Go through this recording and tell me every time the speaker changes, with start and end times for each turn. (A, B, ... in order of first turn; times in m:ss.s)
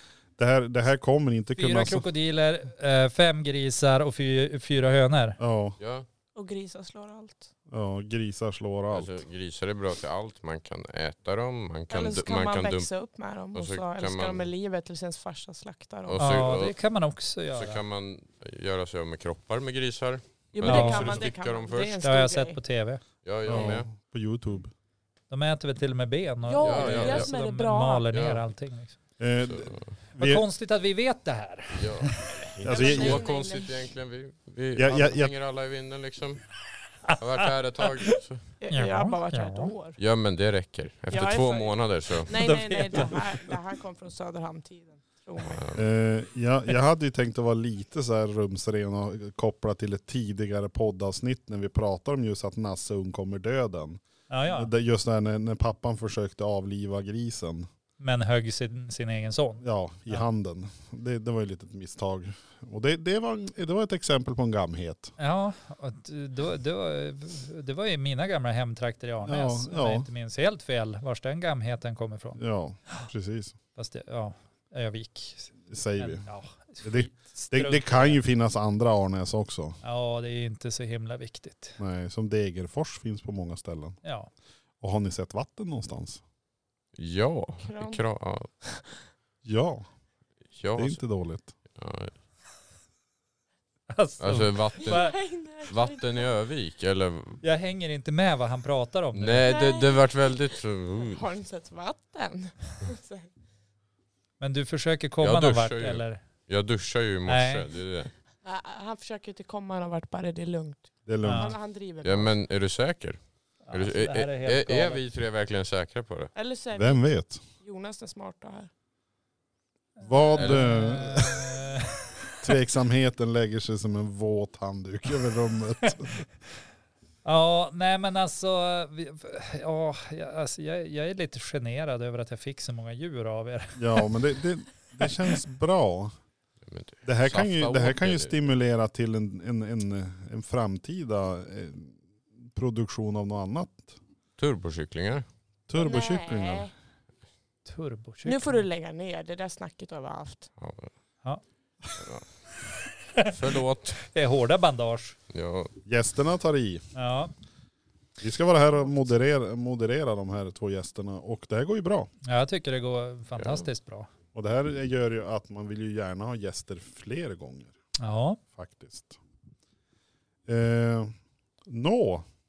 0:00.4-0:02.1 A
0:01.6-0:05.4 B
0:05.4-0:05.8 A
0:05.8-0:06.1 C
0:06.3-0:07.5 D
0:07.7-0:09.2 A
0:08.9-0:12.9 C
0:11.9-0:16.5 D
0:13.5-0:14.5 C
0:16.0-0:16.7 C
0:16.2-0:17.8 B
0:17.5-0:22.0 C
0:20.5-0:22.6 D
0:20.6-0:21.2 B
0:22.0-0:23.0 B
0:23.2-0:23.9 C
0:23.4-0:24.7 A
0:25.3-0:29.0 B
0:26.4-0:28.1 D
0:26.6-0:27.3 C
0:28.1-0:28.4 C
0:29.2-0:30.4 A
0:29.4-0:29.9 C
0:30.2-0:32.3 B
0:31.7-0:36.5 C
0:32.6-0:33.2 A
0:32.6-0:33.7 D
0:34.8-0:35.3 A
0:37.1-0:38.4 C
0:38.6-0:40.0 D
0:38.7-0:39.7 B
0:40.0-0:42.3 C
0:41.1-0:45.6 D
0:42.3-0:43.6 B
0:45.4-0:45.9 C
0:45.7-0:57.7 A
0:54.3-0:54.7 B
0:58.0-1:00.2 B
0:59.6-1:05.1 A
1:05.2-1:13.0 B
1:09.2-1:10.1 A
1:12.4-1:13.6 A
1:13.8-1:18.2 B
1:15.7-1:16.3 A
1:16.8-1:19.8 A
1:19.8-1:21.8 B
1:21.8-1:24.0 A
1:24.0-1:24.3 B
1:24.8-1:26.2 A
1:26.9-1:28.5 C
1:27.6-1:28.0 D
1:28.6-1:29.0 D
1:29.4-1:29.8 A
1:30.5-1:31.0 C
1:30.8-1:31.5 A
1:31.7-1:32.1 C
1:33.9-1:35.2 B
1:34.2-1:37.4 C
1:34.8-1:36.2 D
1:37.4-1:39.5 B
1:39.1-1:41.2 C
1:39.4-1:40.3 D
1:41.1-1:43.3 D
1:44.4-1:46.2 B
1:45.2-1:48.1 C
1:47.3-1:47.7 B
1:48.4-1:52.3 D
1:51.0-1:51.5 A
1:51.2-1:51.5 B
1:52.0-1:53.2 C
1:53.6-1:55.0 B
1:53.7-1:56.3 C
1:56.3-1:57.0 D
1:56.7-1:57.4 A
1:57.6-1:58.7 D
2:00.0-2:01.6 A
2:00.0-2:02.3 B
2:00.4-2:00.7 C
2:02.4-2:06.2 A
2:07.2-2:14.1 B
2:13.8-2:16.1 A
2:16.6-2:18.3 C
2:17.0-2:24.0 A
2:24.4-2:25.2 C
2:25.7-2:26.7 A
2:25.8-2:26.7 D
2:27.6-2:28.6 B
2:28.2-2:30.5 D
2:30.6-2:30.9 C
2:31.9-2:32.2 C
2:33.3-2:34.0 C
2:34.0-2:35.2 B
2:35.3-2:35.7 C
2:35.8-2:36.8 A
2:36.9-2:37.3 B
2:38.2-2:42.1 A
2:42.2-2:44.1 B
2:43.4-2:43.6 C
2:44.3-2:47.7 A
2:48.0-2:48.4 B
2:48.6-2:49.2 A
2:50.5-2:51.1 A
2:51.6-2:52.2 A